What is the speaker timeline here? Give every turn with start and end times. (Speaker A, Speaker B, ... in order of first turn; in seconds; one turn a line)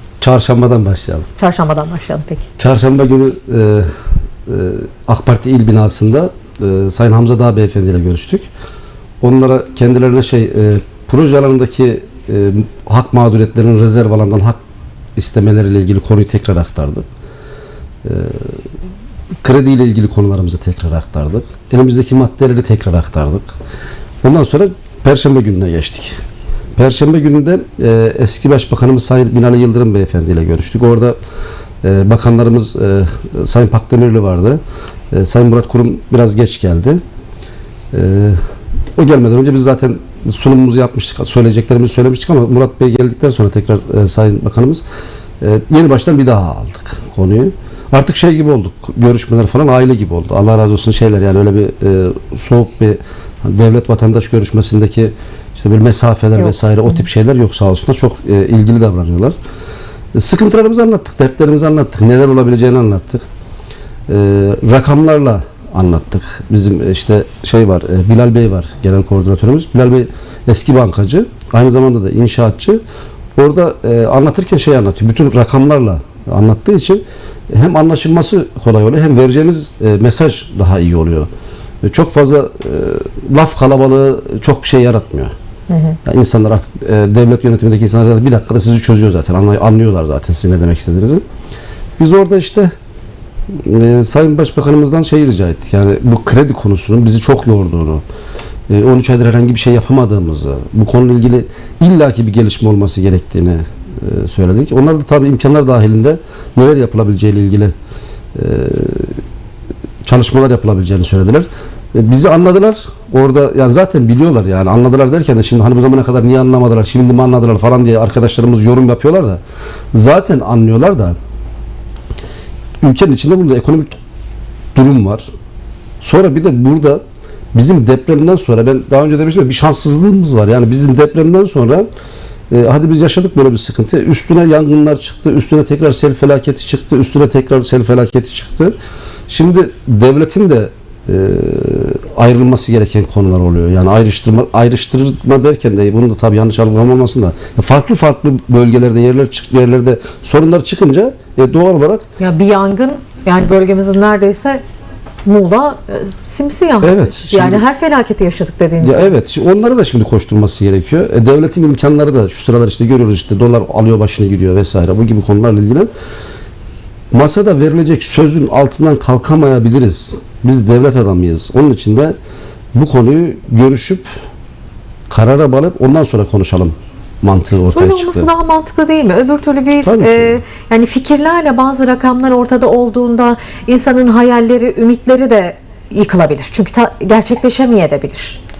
Speaker A: 0.2-1.2
Speaker B: 1.4-2.4
Speaker A: 2.6-3.9
Speaker A: 4.5-8.5
Speaker A: 9.2-14.6
Speaker A: 15.2-17.1
Speaker A: 18.0-18.6
Speaker A: 19.4-23.5
Speaker A: 24.2-26.2
Speaker A: 26.8-31.1
Speaker A: 31.8-34.6
Speaker A: 35.1-37.0
Speaker A: 37.9-38.4
Speaker A: 39.0-44.8
Speaker A: 45.4-59.4
Speaker A: 60.1-63.2
Speaker A: 64.1-72.8
Speaker A: 73.3-81.3
Speaker A: 81.8-85.3
Speaker B: 85.7-86.0
Speaker A: 86.0-91.2
Speaker A: 92.0-92.7
Speaker A: 93.5-98.0
Speaker A: 98.7-107.7
Speaker A: 108.3-109.2
Speaker A: 110.0-119.4
Speaker A: 119.9-121.2
Speaker A: 122.8-123.9
Speaker A: 124.7-125.3
Speaker A: 126.0-127.0
Speaker A: 127.5-131.8
Speaker A: 132.5-138.7
Speaker A: 139.3-152.0
Speaker B: 152.2-154.6
Speaker B: 155.2-159.2
Speaker A: 156.8-157.6
Speaker A: 158.8-165.9
Speaker A: 167.1-172.1
Speaker A: 172.7-174.0
Speaker A: 175.1-178.3
Speaker B: 177.7-188.4
Speaker A: 179.8-180.4